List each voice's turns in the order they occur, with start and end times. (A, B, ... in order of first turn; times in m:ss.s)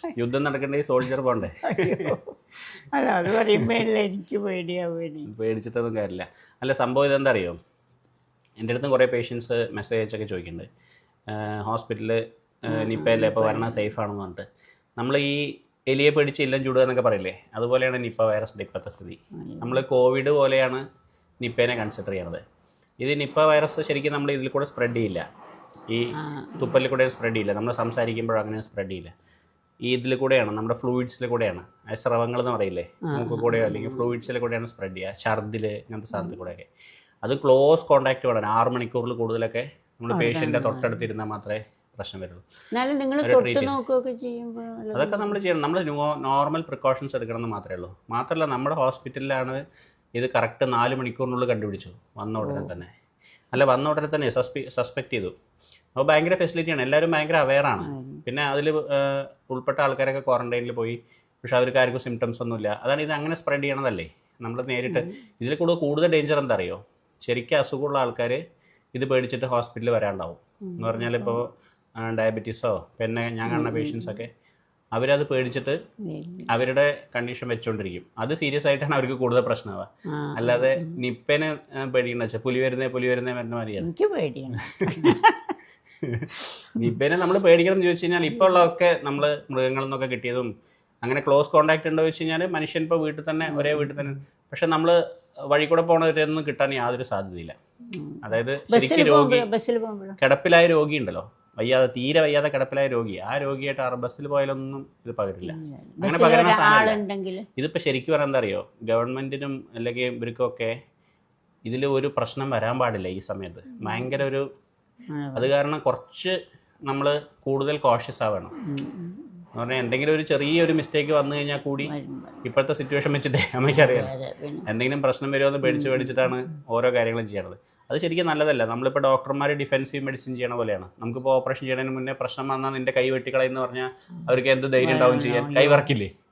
0:00.2-0:02.2 A
0:01.6-0:05.3 B
0:03.4-0:03.7 A
0:05.3-0:07.6 A
0:08.6-0:10.7 A
0:11.3-0:14.5 A
0:12.7-0:13.9 B
0:15.0-0:20.8 A
0:19.4-0:19.8 B
0:21.4-0:22.4 A
0:23.0-0:25.2 A
0:25.9-0:29.1 A
0:26.2-0:26.8 B
0:29.9-0:36.7 A
0:33.1-0:34.1 B
0:36.1-0:36.4 B
0:37.2-0:42.4 A
0:40.1-0:41.0 B
0:42.7-0:45.4 B
0:43.2-0:43.8 A
0:44.9-0:49.6 A
0:50.2-0:52.9 A
0:52.4-0:52.7 B
0:53.5-0:55.3 A
0:56.0-1:08.4 A
0:57.8-0:58.2 B
1:04.9-1:05.2 B
1:09.0-1:11.5 A
1:10.7-1:11.4 B
1:12.0-1:14.3 A
1:13.5-1:14.2 B
1:14.9-1:15.8 A
1:16.1-1:16.5 B
1:16.5-1:23.9 A
1:20.1-1:21.0 B
1:23.8-1:25.6 B
1:24.8-1:25.2 A
1:26.0-1:30.5 A
1:26.4-1:26.9 B
1:31.0-1:35.0 A
1:33.5-1:34.2 B
1:35.5-1:37.6 A
1:37.9-1:40.2 B
1:38.2-1:39.5 A
1:40.2-1:47.0 A
1:45.4-1:47.5 B
1:47.6-1:50.7 A
1:51.7-1:54.5 A
1:53.8-1:54.2 B
1:55.1-1:55.5 B
1:55.4-1:56.4 A
1:56.9-1:58.5 A
1:58.6-1:59.4 B
1:59.6-2:01.9 A
2:01.8-2:02.4 B
2:02.4-2:04.1 A
2:03.7-2:04.7 B
2:04.7-2:16.1 A
2:05.6-2:06.3 B
2:14.8-2:15.9 B